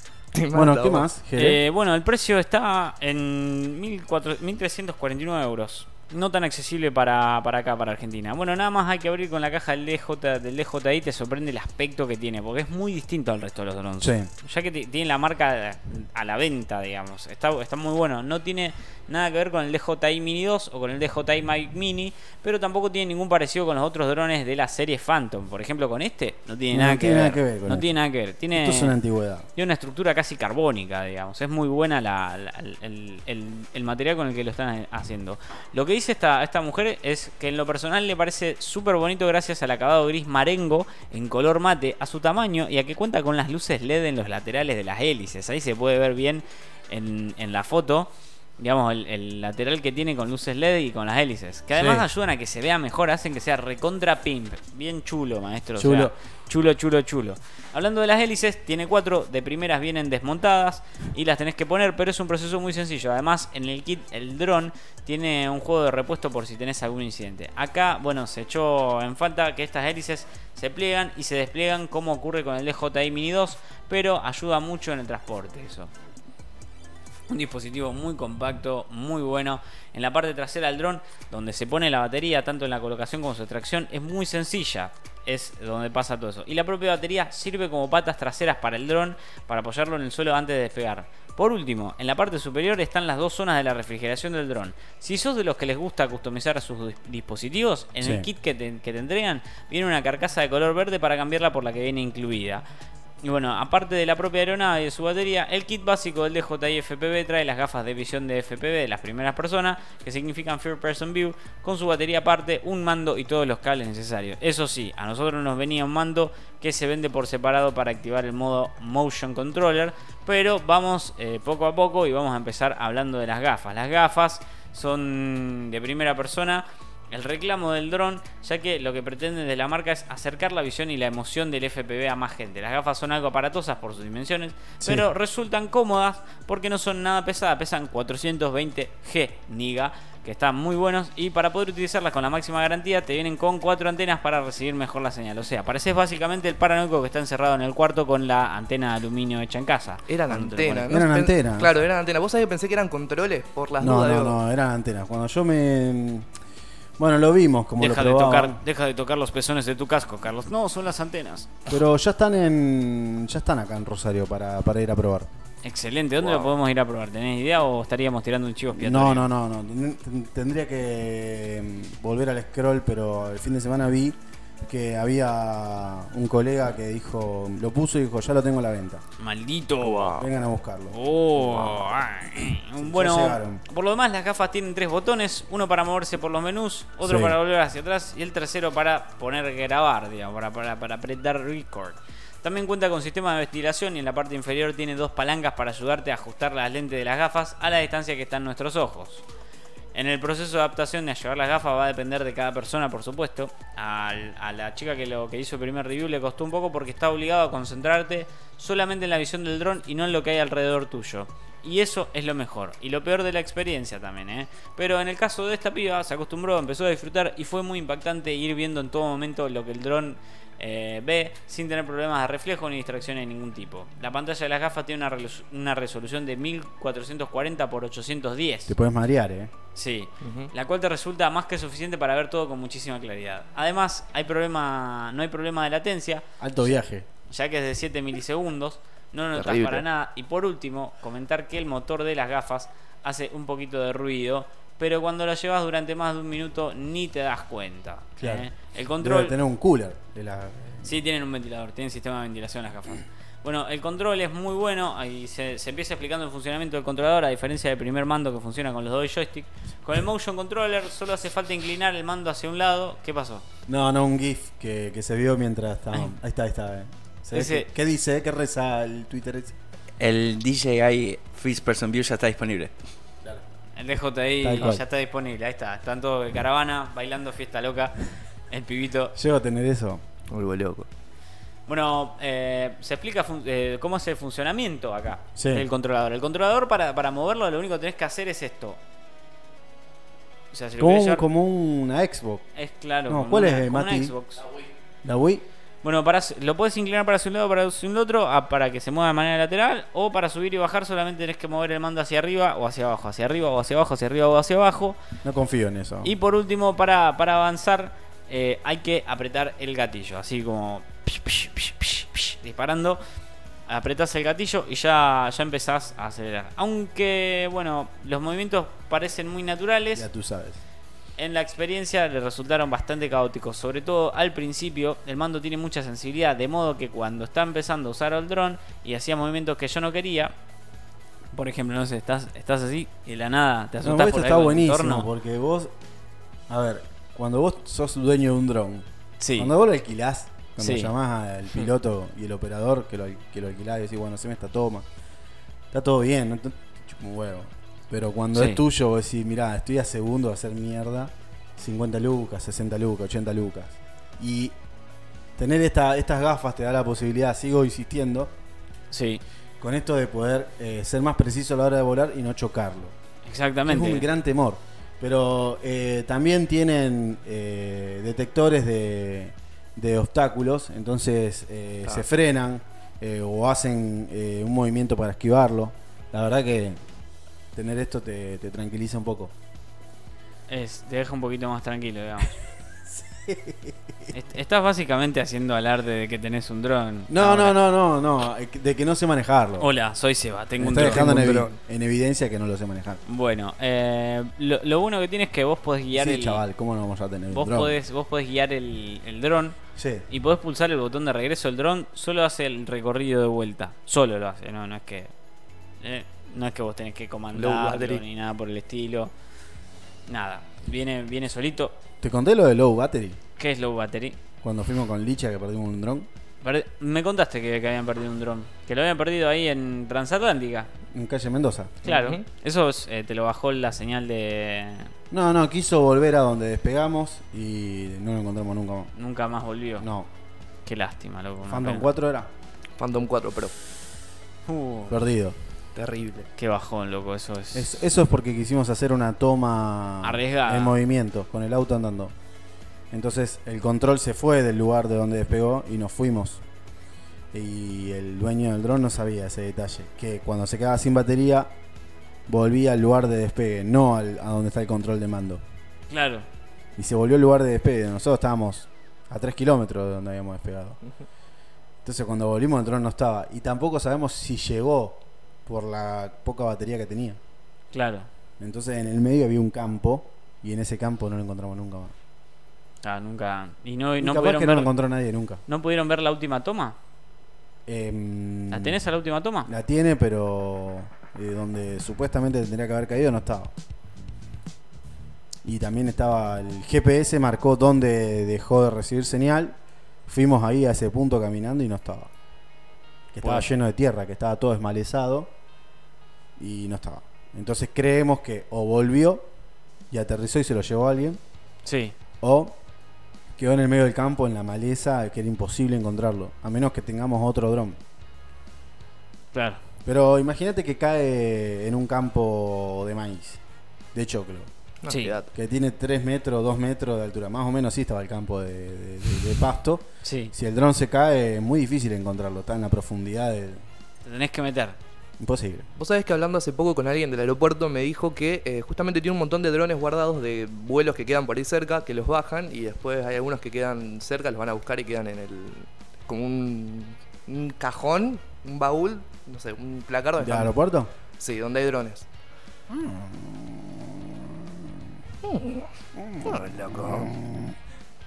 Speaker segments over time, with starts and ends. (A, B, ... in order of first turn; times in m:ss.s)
0:00.3-0:01.1 A
0:00.5-0:01.6 B
0:01.4-0:29.0 C
0:14.0-0:14.3 B
0:26.7-0:27.9 B
0:28.5-0:29.5 B
0:29.6-1:15.9 C
0:51.7-0:52.1 B
0:55.8-0:56.1 B
1:17.3-1:42.6 C
1:38.0-1:38.3 B
1:43.2-2:30.9 C
2:14.8-2:15.1 B
2:30.1-2:34.4 A
2:30.9-2:31.7 B
2:33.8-2:36.3 B
2:37.0-2:38.6 B
2:37.8-2:41.6 C
2:41.7-2:45.3 B
2:45.6-2:49.3 C
2:48.7-2:59.0 B
2:59.2-3:00.3 C
2:59.8-3:00.1 A
3:00.1-3:01.9 B
3:00.9-3:19.2 C
3:02.8-3:03.6 B
3:07.0-3:07.4 B
3:19.9-3:48.8 C
3:48.7-3:49.5 B
3:49.8-3:56.8 C
3:50.2-3:50.5 A
3:56.4-3:57.1 B
3:57.3-4:09.4 C
3:59.4-3:59.8 A
4:08.2-4:08.5 B
4:09.0-4:10.9 B
4:10.8-4:23.4 C
4:23.7-4:29.6 B
4:27.3-4:27.7 C
4:30.0-4:32.7 D
4:33.8-4:39.2 C
4:34.4-4:34.8 B
4:39.2-4:40.0 B
4:40.3-4:40.9 A
4:41.7-4:48.8 C
4:45.4-4:45.7 B
4:50.5-4:51.3 C
4:50.8-4:52.5 B
4:52.6-4:54.4 C
4:53.1-4:54.2 B
4:55.0-4:55.4 B
4:55.8-5:05.0 C
5:05.2-5:06.1 B
5:06.0-5:13.0 C
5:13.7-5:20.1 C
5:20.0-5:20.6 B
5:21.2-5:30.3 C
5:31.3-5:35.1 C
5:33.8-5:35.7 B
5:36.5-5:44.9 B
5:39.2-5:39.5 C
5:40.6-5:40.9 C
5:45.7-5:54.6 B
5:48.3-5:48.6 C
5:55.4-5:58.3 B
5:58.9-5:59.2 C
5:59.6-6:03.0 B
6:03.3-6:04.1 C
6:03.7-6:16.8 B
6:17.5-6:19.3 B
6:20.5-6:22.4 C
6:23.0-6:23.7 B
6:24.1-6:27.6 C
6:27.1-6:29.7 B
6:29.6-6:31.1 C
6:30.6-6:33.0 B
6:30.7-6:31.6 A
6:33.1-6:36.4 C
6:36.0-6:37.8 B
6:37.3-6:39.6 C
6:39.8-6:40.1 B
6:40.1-6:45.1 C
6:45.8-6:49.1 C
6:47.3-6:48.0 A
6:50.1-6:51.8 C
6:52.0-6:53.2 B
6:53.4-6:54.2 C
6:54.4-6:56.1 B
6:56.4-7:00.7 C
7:00.9-7:01.8 B
7:01.8-7:04.9 C
7:01.8-7:02.2 A
7:05.1-7:08.9 B
7:09.0-7:09.9 C
7:09.8-7:10.1 B
7:10.7-7:11.9 C
7:11.5-7:12.3 B
7:12.8-7:13.6 A
7:14.5-7:14.8 C
7:14.9-7:15.4 B
7:15.8-7:16.3 A
7:16.4-7:17.8 C
7:17.5-7:22.2 B
7:20.0-7:20.8 C
7:22.9-7:26.4 B
7:27.3-7:31.5 B
7:32.3-7:35.4 B
7:35.9-7:36.3 C
7:36.8-7:40.8 B
7:41.8-7:47.2 B
7:47.7-7:48.1 C
7:48.4-7:51.9 B
7:52.8-7:54.7 C
7:54.0-7:55.4 B
7:55.5-7:56.8 C
7:57.7-7:58.8 B
7:58.5-7:59.5 C
7:59.5-8:03.5 B
8:05.4-8:12.1 B
8:13.1-8:15.3 B
8:13.2-8:13.5 C
8:16.4-8:19.3 B
8:19.9-8:21.2 B
8:21.6-8:22.0 C
8:22.2-8:22.6 B
8:23.4-8:27.8 B
8:29.3-8:29.6 C
8:29.8-8:33.4 B
8:33.9-8:34.5 B
8:34.8-8:35.3 A
8:34.9-8:35.2 C
8:35.3-8:43.6 B
8:40.0-8:40.3 C
8:44.0-8:44.8 C
8:45.2-8:45.7 B
8:45.8-9:00.6 A
9:00.2-9:00.9 B
9:01.2-9:02.1 A
9:02.7-9:04.8 B
9:05.2-9:05.7 A
9:06.0-9:07.6 B
9:06.2-9:07.1 A